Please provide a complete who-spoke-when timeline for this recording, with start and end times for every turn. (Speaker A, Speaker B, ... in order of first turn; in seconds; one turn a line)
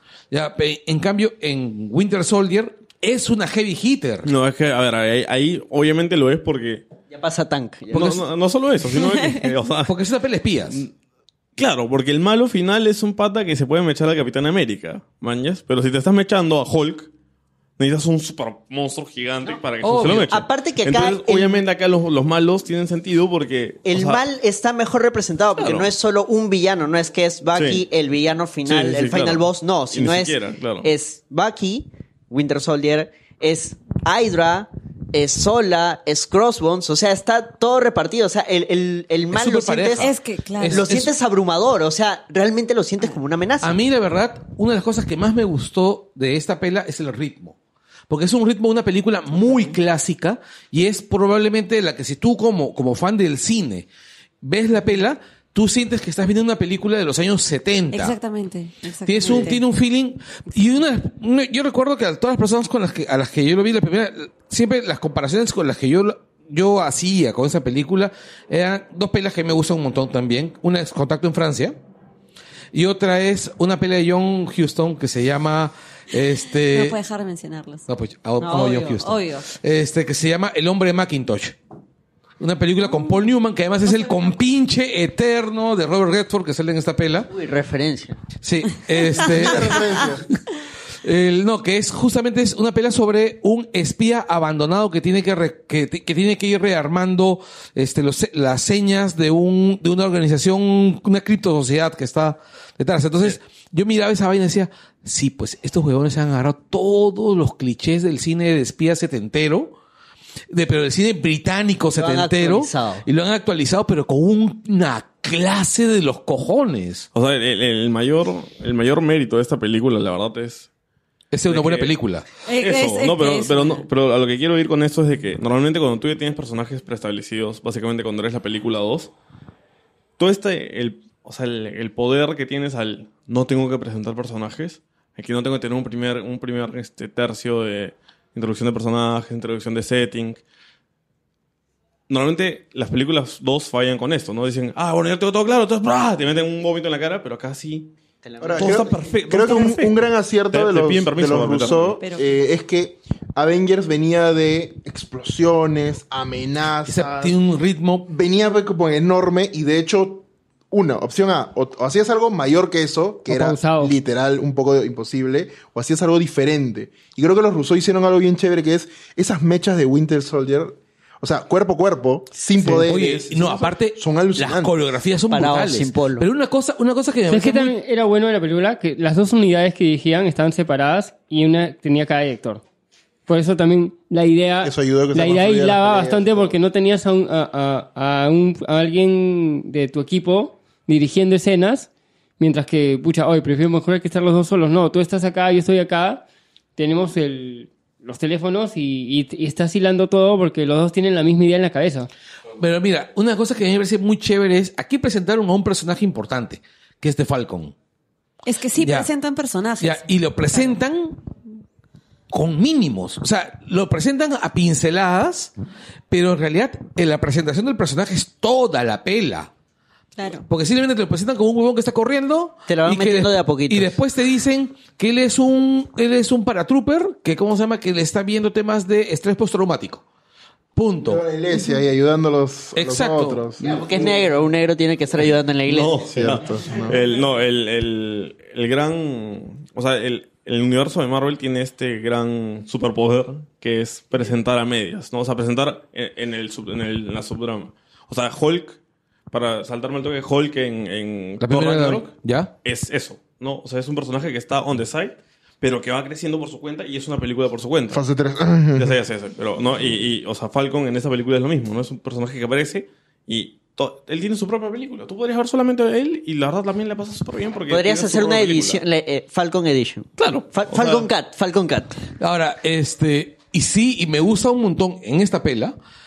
Speaker A: 0.3-4.3
Speaker B: 4.2-6.8
Speaker C: 7.1-8.2
Speaker A: 7.9-8.2
Speaker B: 7.9-9.9
Speaker D: 8.9-9.5
Speaker A: 9.8-10.8
Speaker B: 11.6-17.1
Speaker B: 17.8-24.2
Speaker A: 19.8-20.3
Speaker C: 20.2-21.6
Speaker C: 23.9-40.1
Speaker B: 25.6-25.9
Speaker B: 27.5-27.8
Speaker B: 28.6-30.9
Speaker A: 39.3-41.1
Speaker D: 40.0-41.0
Speaker C: 40.7-43.8
Speaker A: 43.6-47.5
Speaker A: 48.1-53.9
Speaker D: 49.4-49.8
Speaker A: 54.4-58.2
Speaker D: 57.9-59.6
Speaker A: 59.0-71.8
Speaker A: 72.7-77.0
Speaker D: 76.7-77.8
Speaker A: 77.9-81.5
Speaker D: 78.4-79.5
Speaker A: 82.4-87.3
Speaker D: 82.9-83.2
Speaker D: 83.8-84.2
Speaker C: 87.3-88.2
Speaker A: 88.4-90.1
Speaker E: 89.2-90.2
Speaker A: 91.0-109.8
Speaker A: 110.5-117.1
Speaker C: 111.8-113.0
Speaker B: 117.1-120.7
Speaker A: 121.3-122.2
Speaker B: 121.4-122.0
Speaker D: 122.5-123.9
Speaker B: 122.5-129.1
Speaker B: 130.2-140.4
Speaker B: 142.1-147.9
Speaker C: 148.2-148.9
Speaker E: 148.4-157.4
Speaker B: 148.6-152.0
Speaker D: 152.0-152.3
Speaker A: 156.8-158.1
Speaker E: 158.1-174.7
Speaker F: 163.3-163.9
Speaker A: 172.6-177.7
Speaker C: 175.3-176.3
Speaker F: 177.3-182.6
Speaker F: 183.3-196.2
Speaker E: 184.6-186.6
Speaker F: 196.8-202.1
Speaker A: 202.6-207.7
Speaker D: 208.4-210.8
Speaker A: 208.8-209.1
Speaker A: 209.8-211.2
Speaker A: 212.3-215.5
Speaker A: 216.1-219.5
Speaker D: 220.2-220.4
Speaker A: 220.4-230.0
Speaker C: 222.7-224.0
Speaker A: 230.7-231.2
Speaker E: 231.0-234.2
Speaker A: 232.7-233.4
Speaker C: 233.6-236.1
Speaker B: 235.7-248.8
Speaker E: 236.1-237.0
Speaker B: 249.3-258.0
Speaker A: 251.4-252.5
Speaker E: 257.9-259.0
Speaker B: 258.8-268.8
Speaker C: 267.7-272.0
Speaker B: 270.2-271.1
Speaker A: 272.2-275.8